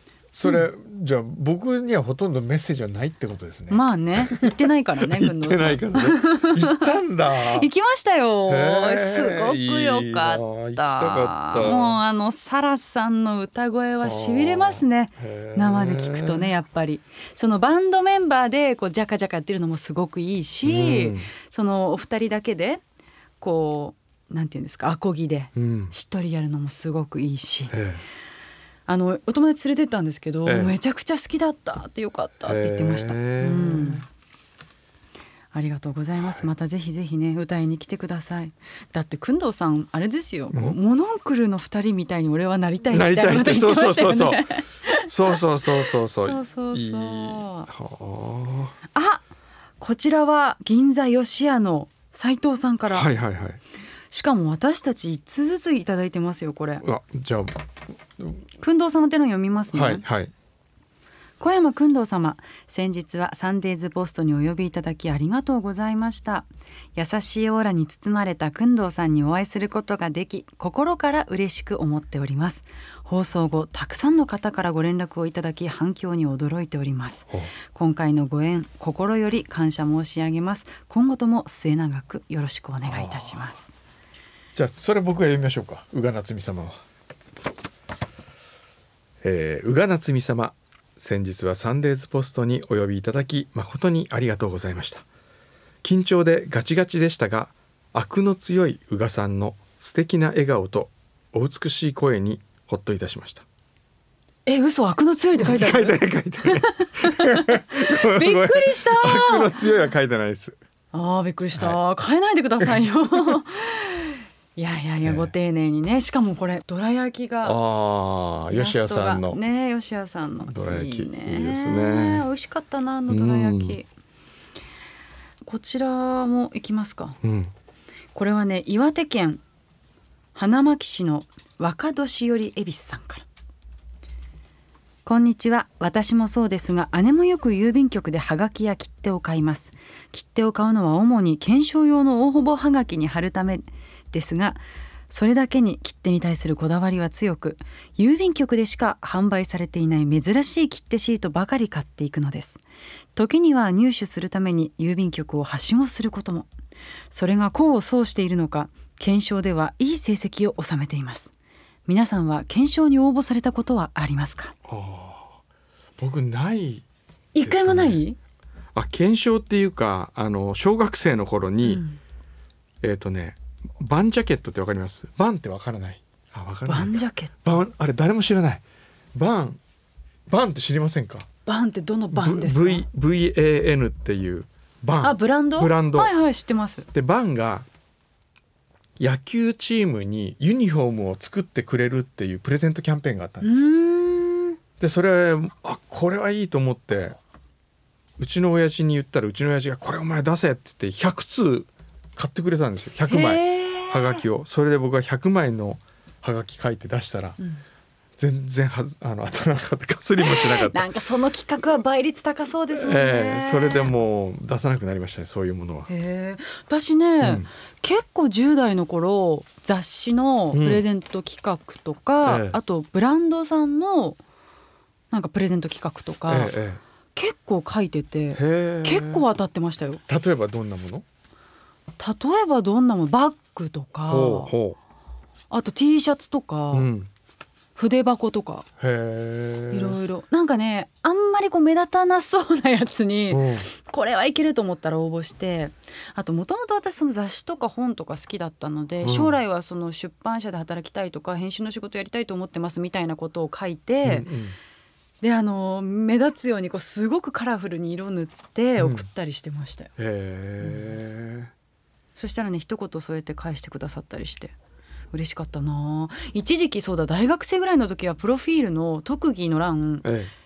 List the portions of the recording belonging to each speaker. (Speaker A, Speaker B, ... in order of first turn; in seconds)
Speaker A: 0.3-7.7, 8.5-12.0, 14.0-16.5, 20.6-21.3, 25.6-25.9, 27.7-28.0, 30.4-30.8, 32.5-34.0, 40.5-40.8, 42.9-44.5, 45.1-48.8, 52.9-53.6, 56.8-57.5, 59.7-60.3, 82.9-83.4, 84.5-86.8, 89.2-95.0, 95.8-103.5, 105.4-110.6, 111.5-111.8, 115.0-115.3, 117.4-119.4, 120.4-122.3, 123.1-123.8, 127.2-127.5, 164.7-165.4, 166.0-166.9, 167.4-168.0, 168.8-171.8, 172.8-178.6, 179.2-179.6, 180.3-181.3, 182.1-186.1, 186.9-187.7, 189.0-193.6, 194.8-197.2, 198.2-207.4, 208.2-210.9, 212.8-215.9, 217.2-217.5, 220.5-220.9, 222.2-222.6, 226.3-226.8, 228.3-229.2, 230.1-231.1, 234.1-234.8, 236.7-237.1, 238.8-240.0, 243.3-243.7, 249.0-249.4, 254.0-254.6, 258.8-259.1, 260.0-261.5, 270.0-270.3
Speaker B: 3.7-22.8, 23.4-27.8, 28.9-34.1, 35.5-47.7, 48.9-49.2, 49.8-53.1, 54.1-56.8, 58.6-60.0, 61.4-83.7, 104.5-109.6, 110.9-117.6, 118.5-123.9, 125.5-127.2, 128.1-129.4, 130.3-133.2, 135.1-152.6, 153.2-156.5, 157.1-161.3, 161.9-164.5, 167.3-168.2, 171.7-172.0, 176.7-177.6, 181.5-182.8, 185.0-186.9, 193.4-194.6, 203.1-204.2, 210.2-213.9, 215.9-224.2, 225.1-226.5, 227.2-230.0, 232.0-234.5, 235.5-236.9, 237.8-238.7, 239.7-254.3, 255.2-259.9, 260.6-260.9, 262.2-264.6, 265.1-270.1